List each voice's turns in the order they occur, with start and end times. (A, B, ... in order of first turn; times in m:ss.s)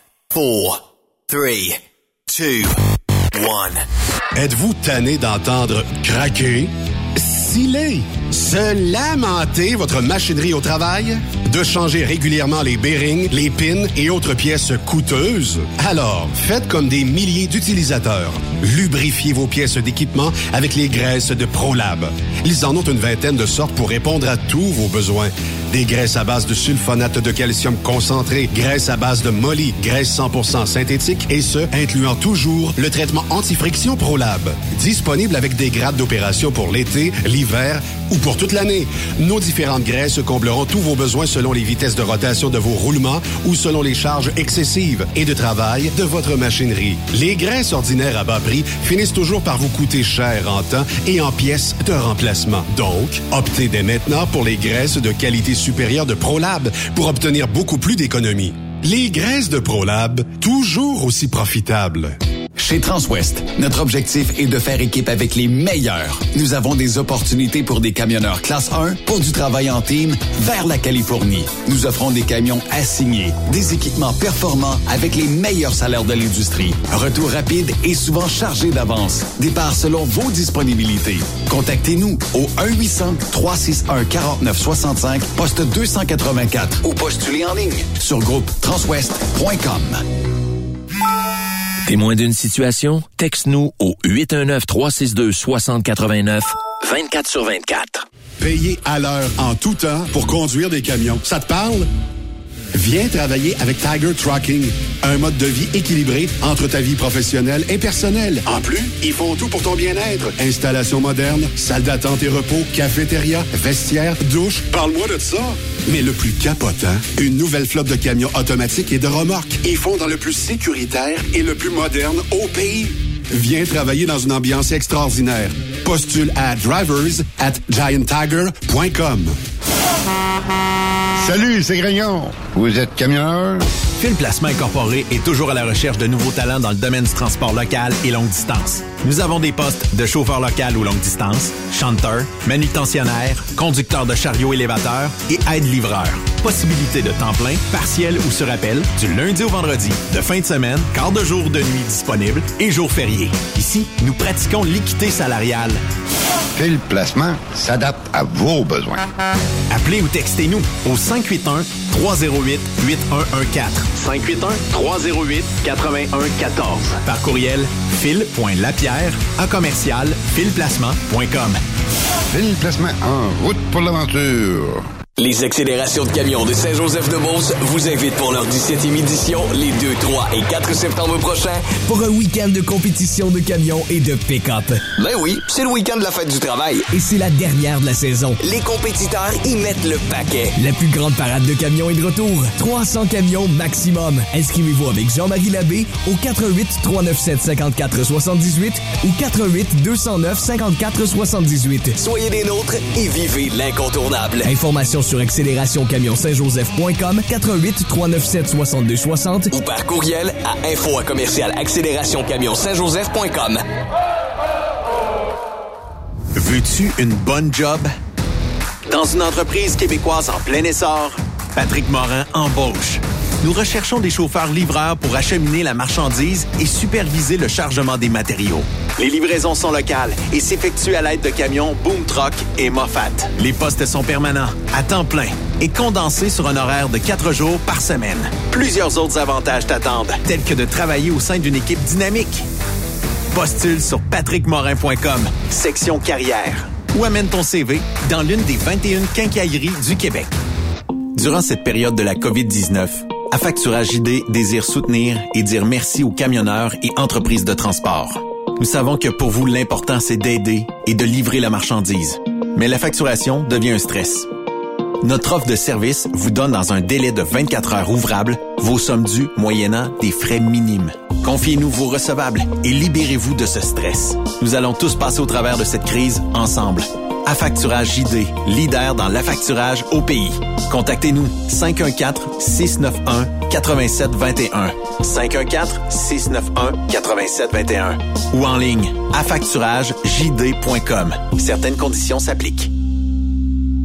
0:00.3-0:00.8 A
0:01.3-0:01.7 A
0:02.3-0:02.7 A
0:03.3-0:03.7 A
0:04.3-1:02.2 B
1:02.6-1:30.0 C
1:31.8-1:38.0 A
1:38.4-1:41.9 B
1:42.7-2:09.4 B
2:11.2-2:13.6 D
2:14.0-2:35.8 E
2:36.5-2:39.1 D
2:39.7-2:51.6 E
2:52.3-2:54.8 D
2:55.2-3:01.8 F
3:01.8-3:04.8 G
3:05.0-3:06.8 F
3:06.9-3:08.4 G
3:08.4-3:10.5 F
3:10.5-3:21.9 G
3:22.0-3:24.5 F
3:24.4-3:29.5 G
3:29.5-3:33.6 F
3:36.3-3:37.9 E
3:38.9-4:02.4 E
4:03.3-4:10.3 E
4:11.1-4:24.3 E
4:25.0-4:52.7 E